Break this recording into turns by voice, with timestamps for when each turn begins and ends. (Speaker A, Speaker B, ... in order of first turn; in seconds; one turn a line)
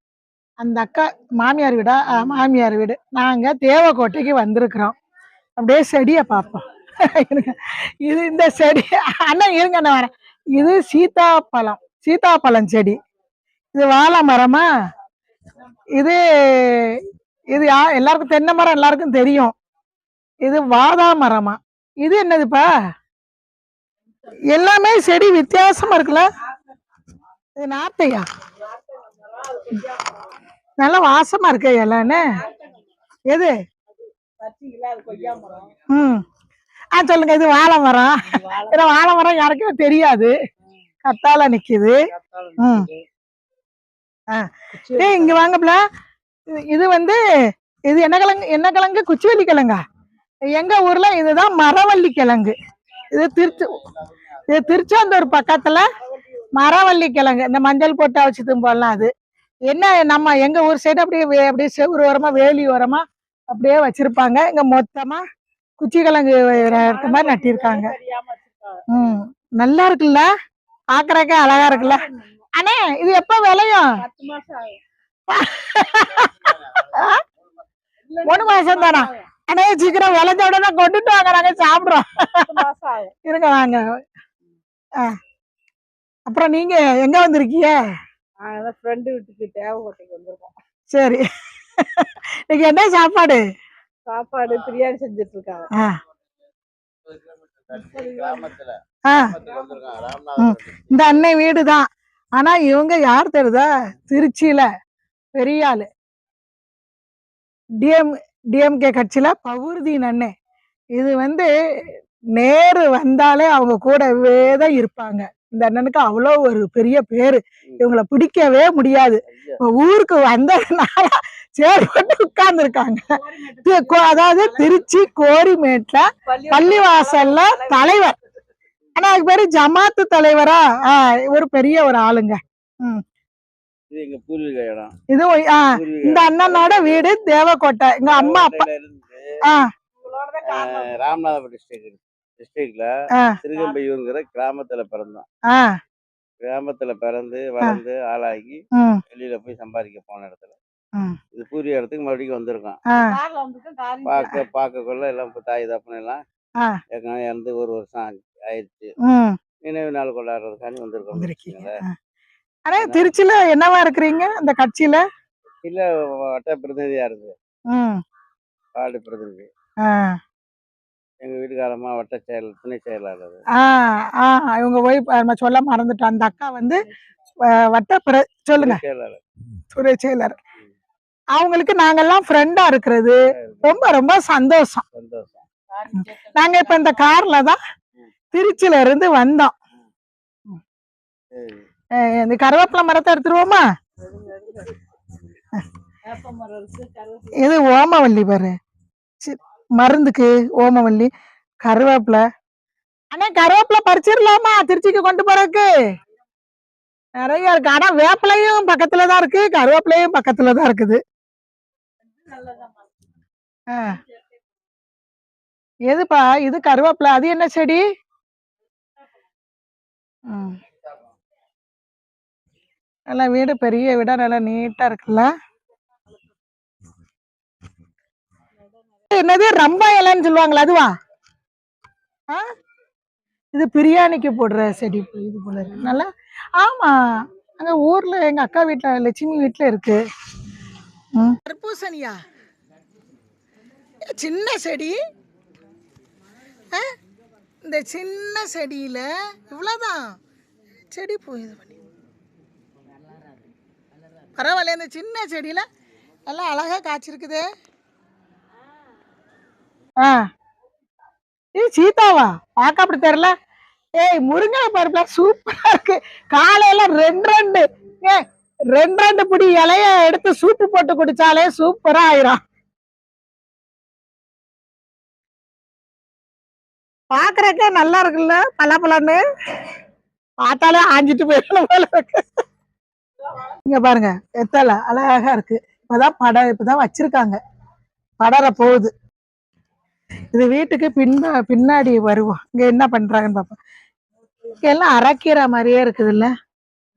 Speaker A: 0.6-4.9
Speaker A: 5.6-12.9
Speaker A: 13.7-14.7
Speaker A: 16.0-19.5
Speaker A: 20.4-22.6
Speaker A: 24.5-26.3
Speaker A: 27.6-28.2
Speaker B: 28.6-30.3
Speaker A: 30.8-32.3
Speaker B: 32.1-32.9
Speaker B: 33.9-35.9
Speaker A: 35.9-36.2
Speaker A: 36.9-40.3
Speaker B: 38.3-39.0
Speaker A: 41.0-42.0
Speaker C: 42.2-43.0
Speaker A: 42.6-42.9
Speaker A: 44.3-45.8
Speaker B: 44.8-45.5
Speaker A: 46.5-47.2
Speaker A: 47.9-49.8
Speaker A: 50.5-52.5
Speaker A: 53.1-53.8
Speaker A: 54.5-55.8
Speaker A: 56.5-59.1
Speaker A: 59.7-65.2
Speaker A: 65.8-67.9
Speaker B: 66.5-69.0
Speaker A: 68.9-70.3
Speaker A: 70.9-72.0
Speaker B: 71.4-72.3
Speaker A: 72.5-73.9
Speaker B: 73.9-74.8
Speaker A: 75.3-77.2
Speaker C: 76.2-76.9
Speaker B: 78.1-79.3
Speaker A: 78.2-82.5
Speaker B: 82.3-83.1
Speaker A: 83.2-83.8
Speaker A: 86.3-87.7
Speaker B: 88.4-90.5
Speaker A: 90.9-91.2
Speaker A: 91.8-93.4
Speaker B: 94.0-95.7
Speaker C: 94.4-94.7
Speaker C: 97.0-101.2
Speaker B: 97.8-98.4
Speaker A: 99.1-99.3
Speaker A: 100.4-101.8
Speaker A: 102.4-104.7
Speaker A: 105.3-105.9
Speaker A: 107.8-110.3
Speaker A: 111.0-111.5
Speaker A: 112.3-128.2
Speaker C: 119.3-119.6
Speaker B: 123.2-124.8
Speaker B: 126.2-128.2
Speaker A: 128.9-133.0
Speaker C: 133.9-134.9
Speaker A: 135.1-138.6
Speaker C: 135.7-137.1
Speaker C: 138.0-139.3
Speaker B: 140.0-140.9
Speaker C: 140.4-142.9
Speaker C: 143.4-145.2
Speaker A: 145.5-145.7
Speaker C: 146.4-150.6
Speaker A: 148.7-149.0
Speaker C: 151.3-152.8
Speaker B: 152.9-154.3
Speaker C: 154.0-156.2
Speaker C: 156.9-158.9
Speaker A: 159.0-159.3
Speaker C: 159.6-161.7
Speaker A: 161.1-161.9
Speaker A: 162.7-165.0
Speaker C: 162.8-163.1
Speaker C: 165.6-167.3
Speaker A: 167.7-168.0
Speaker C: 168.7-169.5
Speaker A: 169.8-170.2
Speaker C: 171.2-173.4
Speaker A: 173.6-176.8
Speaker A: 177.5-178.8
Speaker C: 178.6-179.2
Speaker A: 179.7-180.4
Speaker A: 181.3-184.8
Speaker C: 183.3-183.9
Speaker C: 184.9-185.4
Speaker B: 185.8-186.8
Speaker A: 186.1-187.6
Speaker A: 188.3-189.5
Speaker C: 191.3-191.7
Speaker A: 192.0-193.6
Speaker B: 194.0-194.8
Speaker B: 196.1-197.5
Speaker A: 197.4-198.5
Speaker A: 199.2-201.1
Speaker A: 201.6-202.2
Speaker A: 203.1-205.7
Speaker A: 207.2-211.0
Speaker B: 212.2-212.8
Speaker A: 213.7-214.0
Speaker A: 215.9-217.8
Speaker A: 220.3-220.6
Speaker A: 223.1-225.3
Speaker A: 229.1-230.9
Speaker A: 233.5-240.0
Speaker A: 241.1-242.2
Speaker A: 244.0-244.9
Speaker A: 247.6-250.2
Speaker A: 250.9-251.8
Speaker A: 254.3-255.6
Speaker A: 256.3-257.4
Speaker A: 261.6-263.3
Speaker A: 264.0-268.2
Speaker A: 268.7-272.4
Speaker A: 277.1-279.2
Speaker A: 280.4-282.2
Speaker A: 283.6-287.4
Speaker A: 288.2-288.9
Speaker A: 290.3-293.6
Speaker A: 294.6-296.3